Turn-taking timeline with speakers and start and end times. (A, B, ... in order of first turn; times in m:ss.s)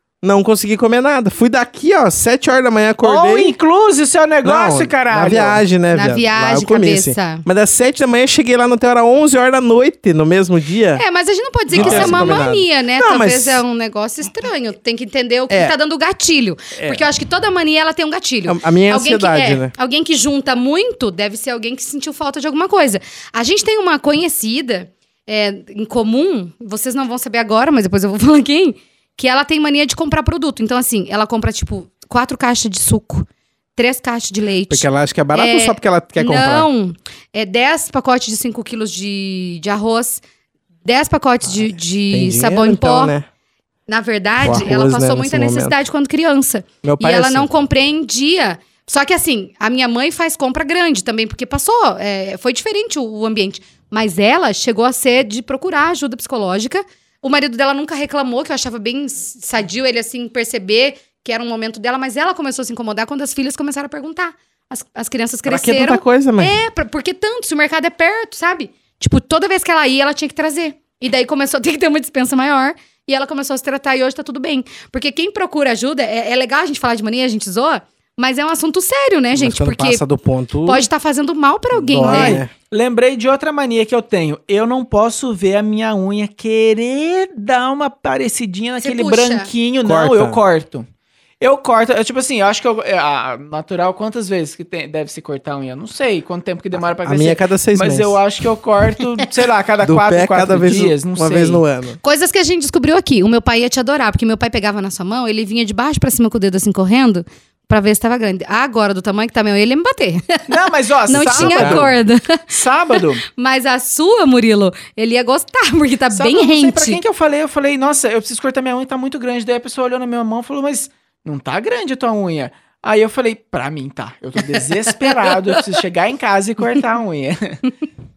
0:00.2-0:03.5 A
0:03.0-0:05.6 B
0:04.4-0:11.0 A
0:05.9-0:07.4 C
0:11.0-0:40.2 C
0:11.7-0:12.4 B
0:11.7-0:13.6 A
0:16.8-0:17.0 A
0:18.5-0:19.7 A
0:34.7-0:36.7 A
0:40.8-0:43.1 C
0:41.5-0:43.2 A
0:43.9-1:20.0 C
0:44.4-0:45.8 A
0:46.8-0:47.5 A
1:05.4-1:06.6 A
1:19.3-1:20.8 A
1:20.6-1:22.4 C
1:21.7-1:22.5 A
1:22.0-1:30.8 B
1:28.8-1:29.5 C
1:29.8-1:30.4 A
1:31.4-1:41.6 B
1:37.0-1:38.2 A
1:39.8-1:42.0 A
1:42.0-1:52.5 C
1:50.5-1:51.9 B
1:51.2-1:51.9 A
1:52.5-1:53.2 B
1:53.4-1:57.0 C
1:56.1-2:07.6 B
2:04.9-2:05.6 C